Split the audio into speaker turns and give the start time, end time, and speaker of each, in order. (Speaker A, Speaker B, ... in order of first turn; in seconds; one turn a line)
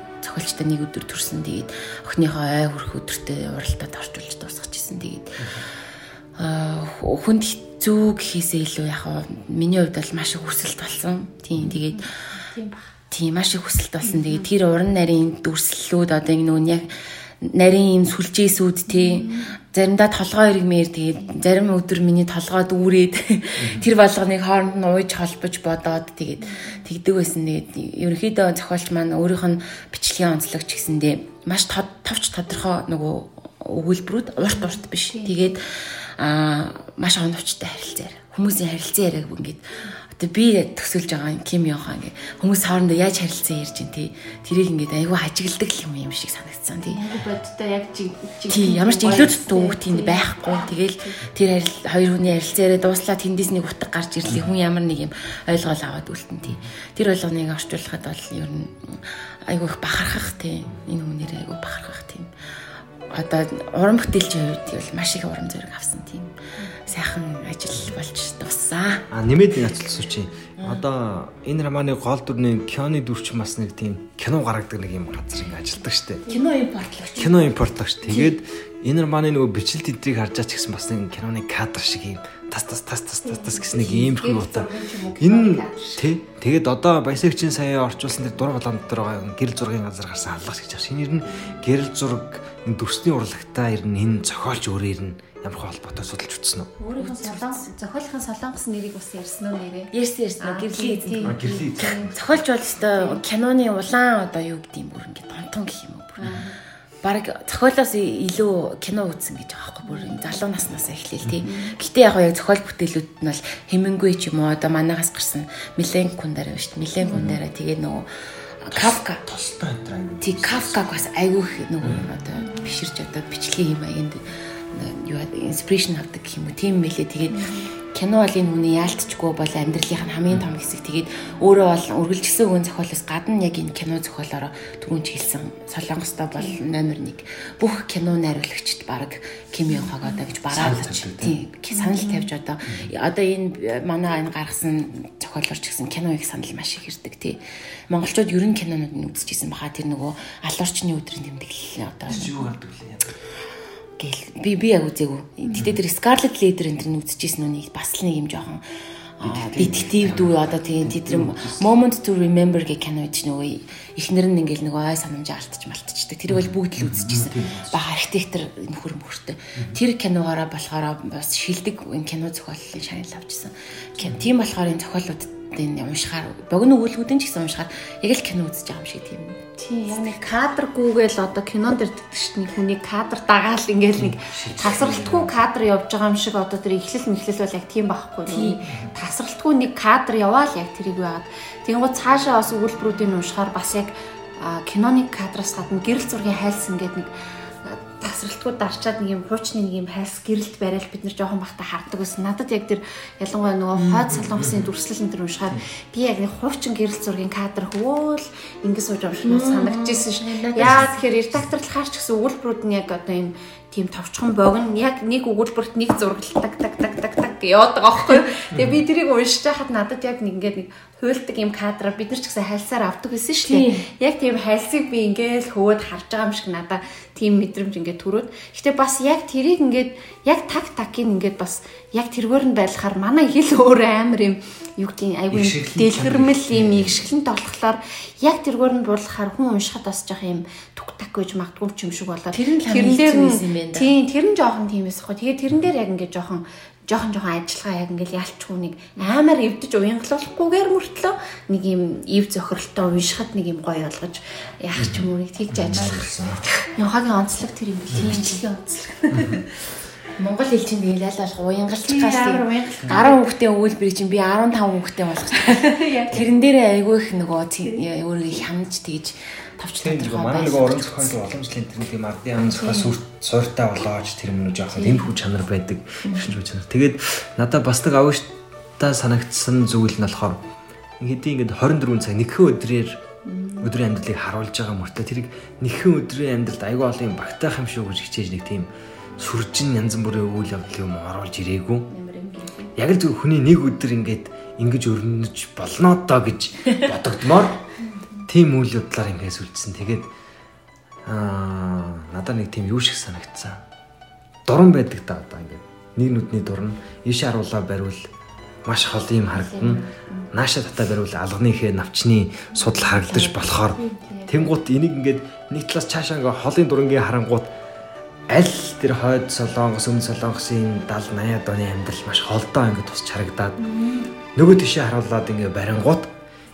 Speaker A: 0.2-5.6
Speaker B: 5.4-5.7
Speaker A: 6.4-12.1
Speaker C: 11.9-12.9
Speaker A: 13.1-47.0
Speaker C: 14.1-14.5
Speaker C: 18.9-19.5
Speaker B: 23.6-23.9
Speaker C: 26.4-26.8
Speaker C: 35.1-35.6
Speaker C: 46.9-51.2
Speaker A: 48.5-62.3
Speaker A: 63.1-69.1
Speaker B: 69.1-76.2
Speaker A: 76.3-77.5
Speaker B: 77.2-96.7
Speaker C: 83.2-86.0
Speaker C: 91.3-91.5
Speaker C: 96.8-102.2
Speaker A: 97.0-97.7
Speaker A: 99.9-106.4
Speaker B: 101.2-102.2
Speaker C: 102.8-103.2
Speaker C: 106.2-106.6
Speaker A: 107.0-118.1
Speaker C: 109.8-110.3
Speaker C: 111.5-111.8
Speaker C: 117.1-117.3
Speaker A: 118.6-119.2
Speaker B: 118.7-120.8
Speaker A: 120.2-152.4
Speaker C: 127.3-127.7
Speaker B: 140.5-141.4
Speaker C: 141.7-142.3
Speaker B: 152.1-153.1
Speaker A: 154.0-158.6
Speaker A: 159.2-180.3
Speaker B: 159.2-161.7
Speaker B: 166.3-167.8
Speaker C: 179.6-197.1
Speaker B: 184.0-185.3
Speaker A: 188.3-188.6
Speaker C: 197.6-259.4
Speaker B: 203.8-204.7
Speaker A: 209.3-211.0
Speaker B: 210.6-210.9
Speaker A: 223.5-223.9
Speaker B: 235.3-237.0
Speaker A: 242.3-243.9
Speaker B: 254.8-256.4
Speaker A: 260.2-271.3
Speaker C: 261.9-263.2
Speaker C: 265.5-266.2
Speaker B: 269.8-280.4
Speaker C: 272.6-272.9
Speaker C: 274.8-275.1
Speaker B: 281.0-283.0
Speaker C: 283.3-283.7
Speaker B: 283.6-291.9
Speaker C: 291.9-292.7
Speaker B: 292.8-297.6
Speaker C: 297.8-298.3
Speaker B: 298.3-300.1
Speaker B: 301.1-303.6
Speaker B: 304.5-308.1
Speaker B: 308.7-317.5
Speaker C: 309.3-310.3
Speaker C: 312.9-314.5
Speaker B: 318.3-323.7
Speaker C: 323.6-324.1
Speaker B: 324.3-326.1